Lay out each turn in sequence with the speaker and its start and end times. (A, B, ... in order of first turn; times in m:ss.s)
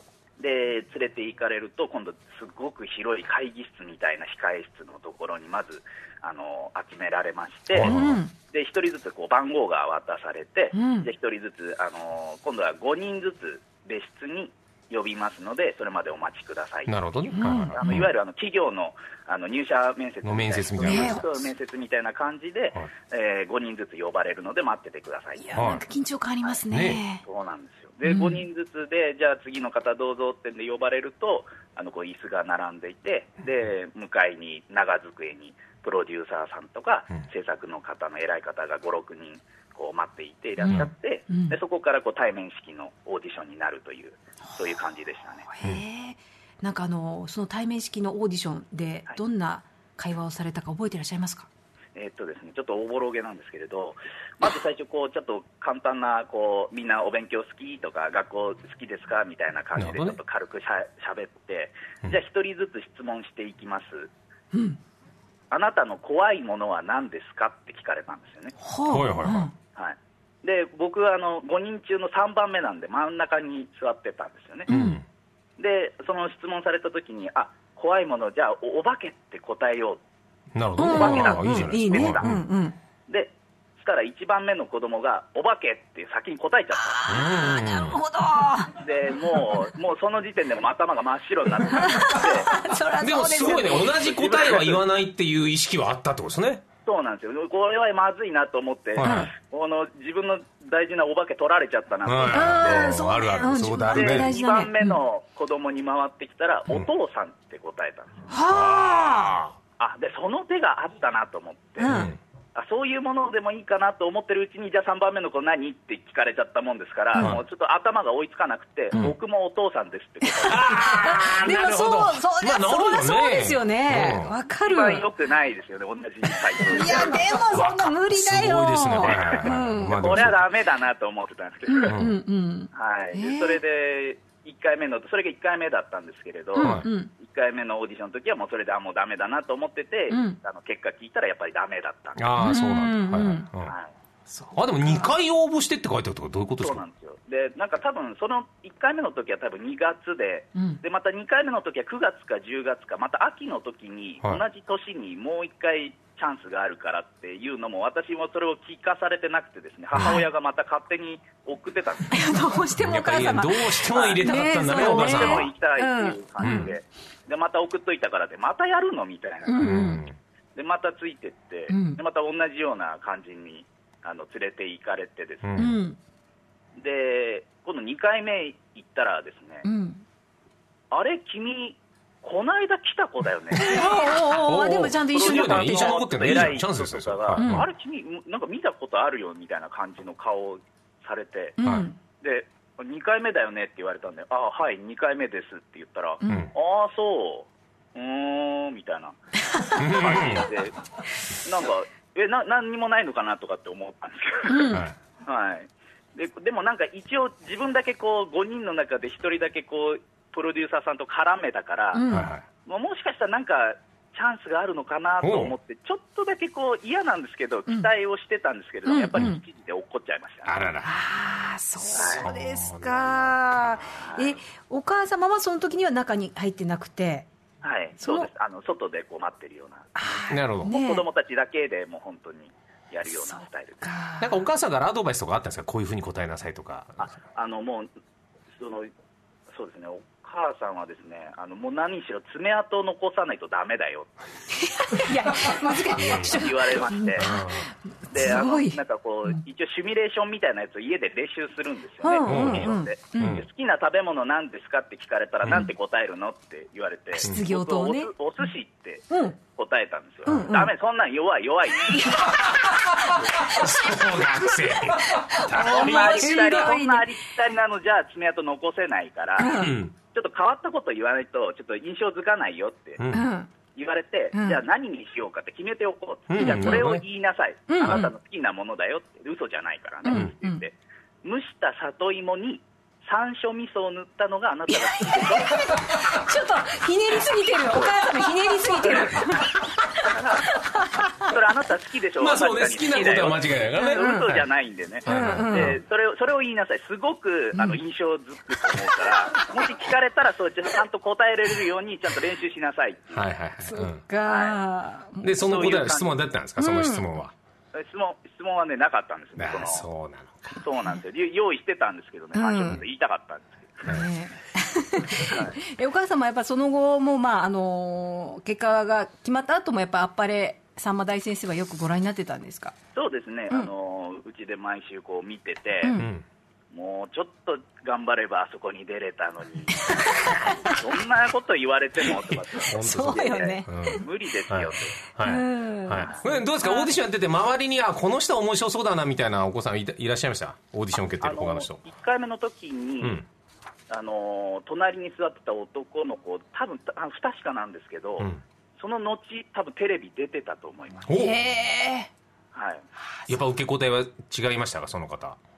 0:00.4-0:25.5 A
0:07.7-0:08.2 B
0:07.8-0:08.3 C
0:10.7-0:11.1 C
0:16.9-0:18.1 B
0:17.3-0:17.8 C
0:20.2-0:21.3 B
0:20.8-0:21.3 C
0:25.4-0:27.2 C
0:25.6-0:25.8 B
0:26.7-0:27.0 B
0:27.2-0:45.4 A
0:28.0-0:28.4 C
0:40.6-0:41.6 C
0:45.5-0:51.5 C
0:52.0-1:04.1 A
0:59.8-1:00.2 B
1:04.5-1:04.8 C
1:05.5-1:08.6 A
1:08.6-1:09.5 C
1:08.9-1:09.5 B
1:09.8-1:14.7 A
1:14.7-1:15.0 C
1:14.7-1:15.0 B
1:15.6-1:20.0 A
1:20.5-1:22.4 B
1:20.8-1:22.8 C
1:20.8-1:22.4 A
1:23.1-1:27.1 A
1:26.7-1:29.5 C
1:27.1-1:28.0 B
1:28.8-1:32.5 A
1:31.7-1:34.0 C
1:33.0-1:36.6 B
1:33.6-1:34.8 A
1:36.9-1:43.0 A
1:39.0-1:39.3 B
1:39.0-1:39.3 C
1:42.0-1:44.3 B
1:42.3-1:45.0 C
1:43.9-1:48.3 A
1:48.3-1:49.4 C
1:48.5-1:49.5 B
1:49.8-1:51.9 A
1:51.8-1:52.1 C
1:51.8-1:52.2 B
1:52.6-2:00.8 A
1:57.2-1:57.4 B
1:58.9-1:59.2 B
2:00.3-2:05.1 C
2:00.4-2:04.4 B
2:04.6-2:07.4 A
2:06.6-2:10.3 C
2:06.9-2:10.5 B
2:09.1-2:12.0 A
2:11.7-2:13.6 C
2:11.8-2:12.2 B
2:12.7-2:22.2 A
2:16.5-2:17.1 C
2:16.6-2:16.9 B
2:20.1-2:20.4 C
2:22.2-2:23.8 B
2:22.4-2:23.5 C
2:23.6-2:23.9 A
2:24.3-2:25.1 C
2:24.5-2:26.8 B
2:26.6-2:42.3 A
2:30.6-2:30.8 C
2:39.9-2:40.2 B
2:40.0-2:40.3 C
2:42.1-2:46.7 C
2:42.8-2:45.5 B
2:43.9-2:49.8 A
2:46.4-2:46.7 B
2:49.4-2:50.0 C
2:49.6-2:50.2 B
2:50.6-2:55.6 A
2:51.7-2:52.0 C
2:55.4-2:55.7 B
2:55.6-2:56.0 C
2:56.8-2:59.7 A
2:59.6-3:00.0 C
3:00.9-3:04.1 A
3:03.6-3:06.5 C
3:03.6-3:07.7 B
3:05.1-3:11.6 A
3:07.4-3:07.7 C
3:11.6-3:12.0 C
3:12.2-3:20.8 A
3:16.2-3:16.5 C
3:19.8-3:20.5 B
3:21.4-3:40.7 A
3:24.5-3:24.8 C
3:24.7-3:25.0 B
3:31.9-3:32.3 C
3:32.1-3:32.5 B
3:35.2-3:35.6 B
3:38.8-3:39.4 C
3:40.4-3:41.0 B
3:40.8-3:47.3 C
3:41.9-3:43.8 B
3:42.0-3:42.3 A
3:44.0-3:44.2 A
3:47.6-3:49.9 A
3:48.0-3:48.3 C
3:50.0-3:51.1 C
3:50.3-3:50.7 B
3:50.6-3:53.9 A
3:53.1-3:54.4 C
3:54.2-3:57.1 B
3:57.1-3:57.9 A
3:58.6-3:58.9 A
3:59.5-4:04.2 A
4:04.5-4:09.4 C
4:06.0-4:06.4 B
4:06.1-4:07.3 A
4:07.2-4:07.7 B
4:08.1-4:22.4 A
4:12.0-4:13.4 C
4:12.2-4:13.5 B
4:15.4-4:15.7 B
4:17.2-4:18.1 C
4:19.1-4:19.4 C
4:20.3-4:20.7 C
4:21.8-4:22.5 C
4:23.1-4:26.8 B
4:25.0-4:27.1 C
4:25.5-4:33.1 A
4:29.4-4:29.8 C
4:29.5-4:29.9 B
4:33.0-4:33.3 B
4:33.1-4:33.5 C
4:33.8-4:46.2 A
4:34.3-4:34.6 C
4:36.3-4:37.0 B
4:36.4-4:36.9 C
4:37.7-4:38.1 C
4:37.8-4:38.1 B
4:40.0-4:40.6 C
4:44.7-4:51.3 C
4:47.7-4:49.4 A
4:50.0-4:50.6 A
4:51.2-5:03.3 A
4:52.2-4:54.5 B
4:53.8-4:54.4 C
4:55.0-4:55.8 C
4:55.0-4:55.8 B
4:57.6-4:57.8 C
5:03.1-5:04.0 B
5:03.6-5:05.4 C
5:04.3-5:04.6 A
5:05.2-5:07.3 B
5:05.4-5:06.2 A
5:06.6-5:07.1 C
5:07.8-5:09.8 A
5:09.4-5:10.6 B
5:10.6-5:14.0 A
5:12.3-5:12.8 C
5:13.9-5:22.8 C
5:15.2-5:15.6 A
5:23.0-5:26.0 A
5:25.8-5:26.1 C
5:25.9-5:26.2 B
5:26.7-5:35.0 A
5:29.8-5:30.8 C
5:32.7-5:41.8 B
5:32.8-5:34.0 C
5:35.2-5:36.9 C
5:41.2-5:43.2 A
5:43.0-5:43.3 B
5:43.9-5:51.0 A
5:51.1-5:51.4 B
5:51.1-5:52.1 C
5:52.5-5:52.8 A
5:53.0-5:53.4 C
5:53.3-5:55.4 B